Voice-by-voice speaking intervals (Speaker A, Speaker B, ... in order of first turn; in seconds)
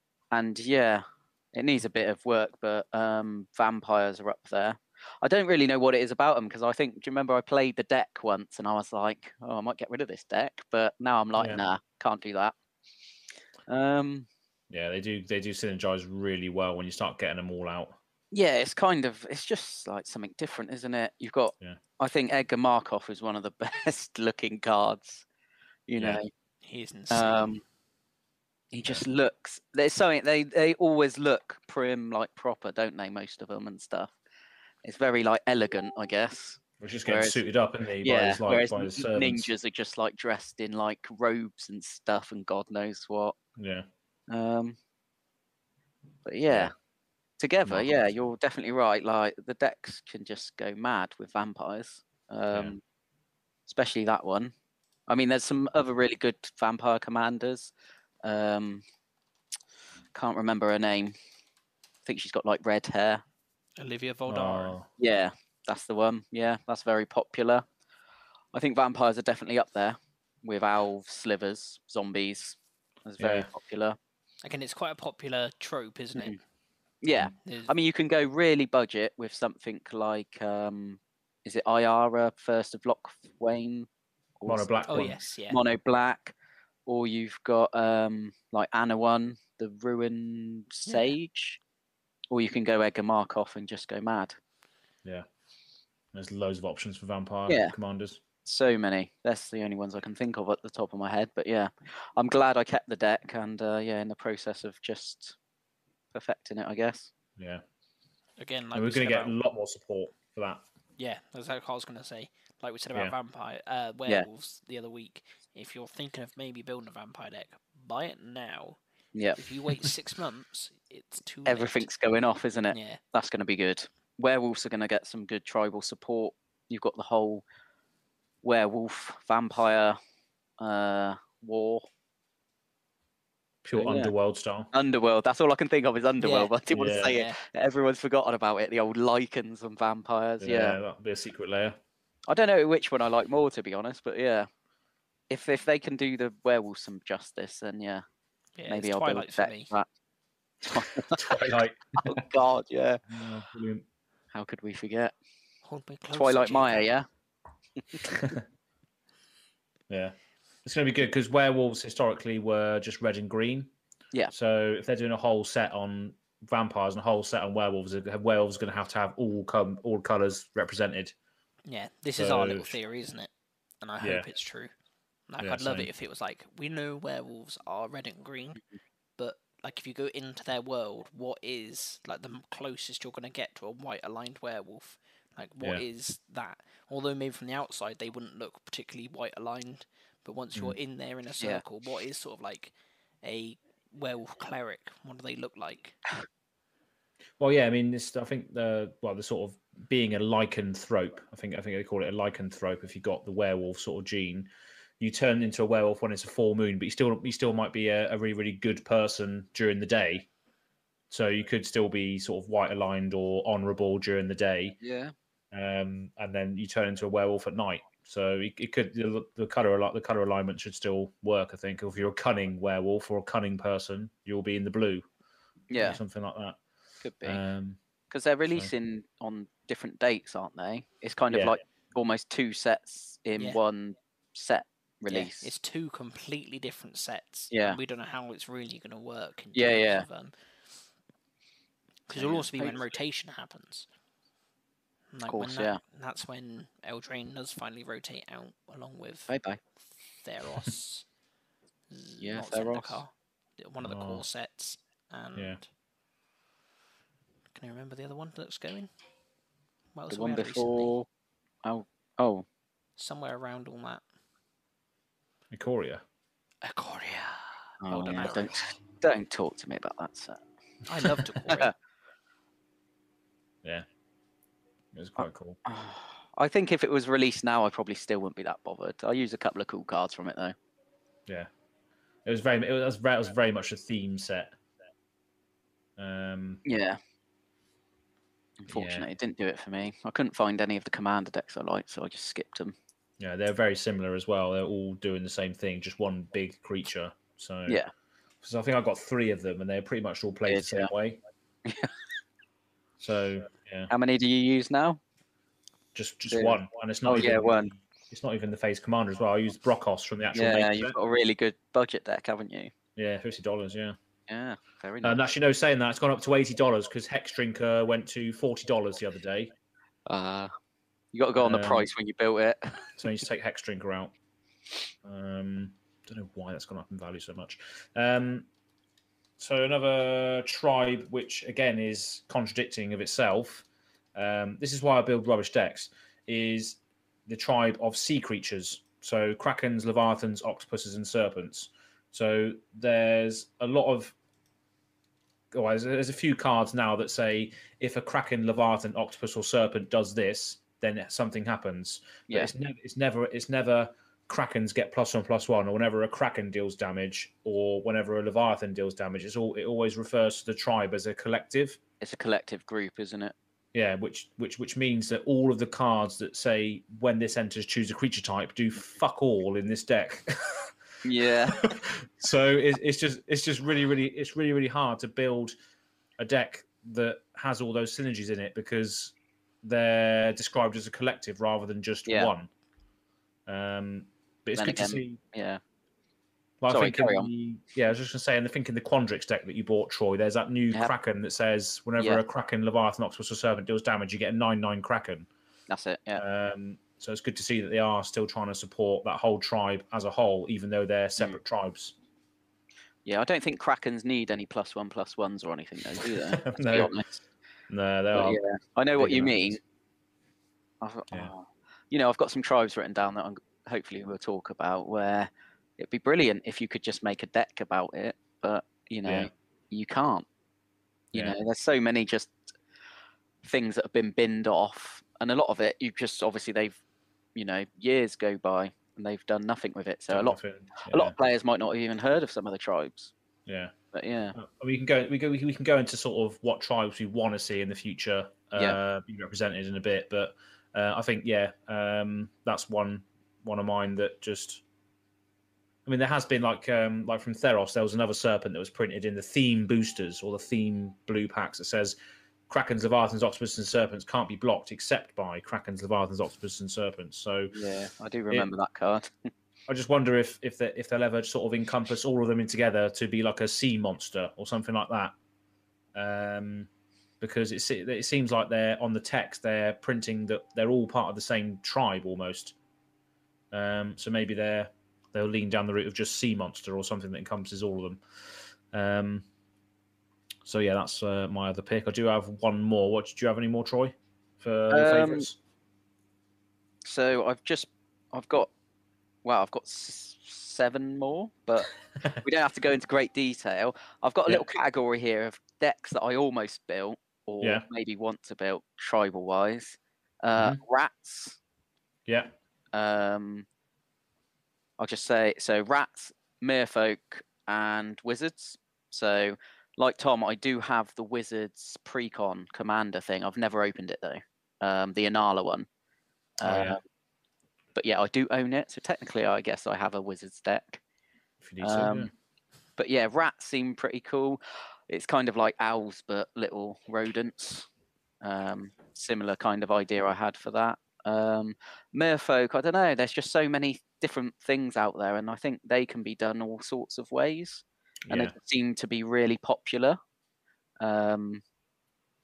Speaker A: 0.3-12.5, 13.7-14.3, 18.3-25.2, 25.9-26.3, 27.1-27.6, 28.7-34.1, 34.8-37.4, 38.0-43.3, 44.3-44.8, 46.2-46.7, 47.4-52.8, 53.7-54.5, 55.1-57.7, 58.2-58.8, 60.1-61.1, 62.0-63.2, 65.0-67.6, 68.5-74.0, 77.0-83.9, 84.4-84.7, 85.5-86.3, 86.8-91.6, 92.3-94.4, 97.5-97.7, 98.4-105.3, 106.1-107.1, 119.1-119.4, 121.5-127.4, 128.4-130.0, 130.6-131.8, 133.8-134.1, 134.7-140.8, 142.3-144.5, 145.3-148.0, 148.7-149.9, 150.6-151.4, 152.0-153.0, 154.3-155.1, 156.1-157.1, 157.9-158.2, 214.8-215.1, 225.7-226.0, 227.0-227.4, 228.1-235.5, 237.5-237.8, 239.5-240.1, 242.1-242.8, 245.3-245.8, 249.3-249.6, 252.2-253.0, 260.1-261.1, 261.6-262.4, 267.8-270.4, 271.1-271.7, 275.6-280.5, 286.6-287.0, 288.6-292.7, 300.5-300.9, 301.6-301.9, 303.9-305.0, 306.3-307.7, 310.3-312.7, 314.3-315.2, 320.1-320.5, 321.1-323.1, 362.0-363.3, 371.0-371.6, 382.1-382.3, 384.6-385.6, 386.7-387.3, 395.7-396.2, 403.1-407.1, 408.1-409.6, 410.8-420.2, 421.1-422.4, 423.4-426.8, 427.3-430.4, 430.9-433.1, 433.9-434.4, 457.5-459.1, 484.7-485.3, 486.8-488.5, 489.2-501.4, 502.7-503.5, 504.8-515.7, 516.4-516.8, 517.7-520.8, 521.6-522.1, 522.8-527.7, 528.2-540.0, 540.8-541.4
Speaker B: 11.3-11.6, 14.7-18.0, 36.8-39.5, 43.6-43.9, 47.6-48.0, 64.3-64.9, 73.2-73.5, 84.5-85.2, 96.1-98.2, 107.4-107.6, 108.7-110.6, 133.6-134.7, 136.7-137.2, 140.4-141.8, 151.1-152.2, 153.1-153.8, 159.9-163.7, 164.3-171.1, 172.2-172.7, 174.0-174.2, 175.4-175.9, 197.4-204.5, 205.0-210.3, 211.1-214.8, 215.5-225.1, 225.8-226.6, 227.2-227.8, 231.3-231.6, 253.8-254.2, 265.5-266.0, 274.9-275.6, 282.2-284.6, 286.0-286.6, 288.7-289.1, 293.2-297.8, 298.4-301.2, 303.0-303.9, 305.9-310.9, 312.9-313.9, 315.0-319.5, 321.4-321.9, 323.0-324.1, 325.0-328.5, 329.4-344.1, 345.5-361.8, 363.7-370.7, 371.4-375.5, 376.2-382.5, 383.5-385.2, 386.6-395.3, 396.1-401.9, 406.0-406.9, 407.7-408.4, 409.0-409.6, 419.0-419.3, 430.1-431.1, 433.5-433.7, 434.3-444.6, 445.9-451.9, 452.5-457.6, 459.7-465.1, 465.9-466.7, 467.2-472.5, 473.5-478.0, 478.7-479.3, 480.4-485.4, 502.1-502.3, 516.4-516.8, 521.4-522.1, 538.1-538.3
Speaker C: 26.6-27.5, 63.8-64.8, 74.4-76.4, 77.4-77.7, 84.9-85.6, 90.8-91.1, 108.4-109.3, 111.0-118.8, 119.4-121.9, 122.7-123.0, 136.2-137.4, 148.6-149.7, 155.6-156.8, 171.7-173.3, 173.8-174.7, 175.3-178.6, 179.2-196.0, 235.1-240.3, 242.1-243.9, 245.1-249.3, 250.2-251.1, 251.9-255.7, 257.5-258.9, 259.9-260.9, 263.0-264.0, 266.6-268.7, 270.9-271.7